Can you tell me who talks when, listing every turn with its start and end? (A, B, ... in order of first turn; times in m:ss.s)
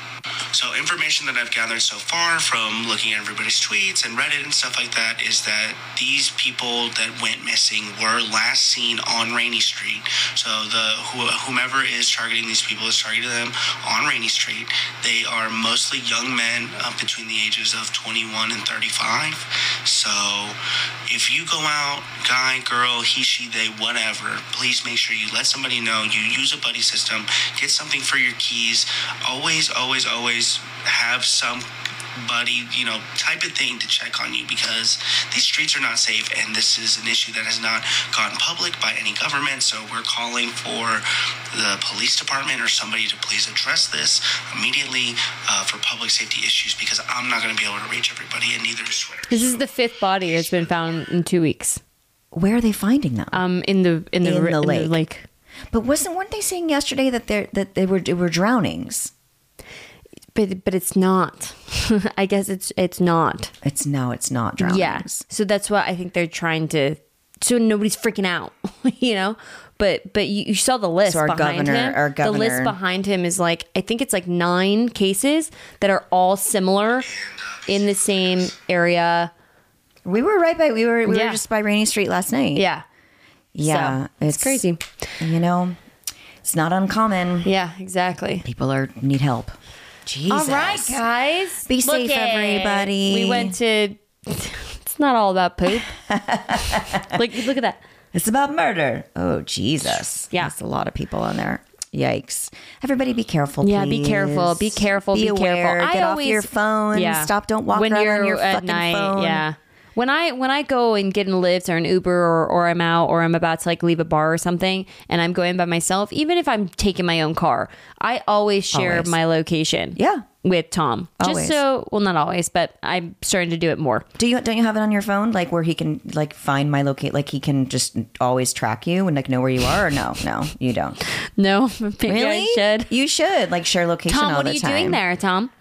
0:00.5-0:49.6 A
0:49.3-0:51.8 B
0:50.4-0:50.8 A
0:52.3-0:53.4 C
0:53.3-0:55.2 B
0:54.2-0:55.0 C
0:55.7-0:59.1 C
1:00.3-1:03.5 B
1:03.6-1:05.2 C
1:04.6-1:17.1 B
1:11.0-1:12.7 C
1:17.0-1:18.5 A
1:17.7-1:19.3 B
1:20.0-1:22.7 C
1:21.1-1:21.4 B
1:22.5-1:22.8 B
1:23.5-1:24.6 C
1:23.6-1:24.8 B
1:25.2-1:25.8 C
1:26.4-1:27.5 C
1:27.4-1:28.4 B
1:28.4-1:31.0 C
1:30.3-1:35.9 B
1:31.6-1:33.6 C
1:35.7-1:37.2 C
1:37.0-1:37.8 B
1:38.1-1:49.4 C
1:43.6-2:04.0 B
1:58.7-1:59.1 C
2:00.0-2:00.2 C
2:01.2-2:01.6 C
2:04.2-2:11.0 C
2:11.2-2:12.9 B
2:12.0-2:15.0 C
2:14.1-2:15.5 B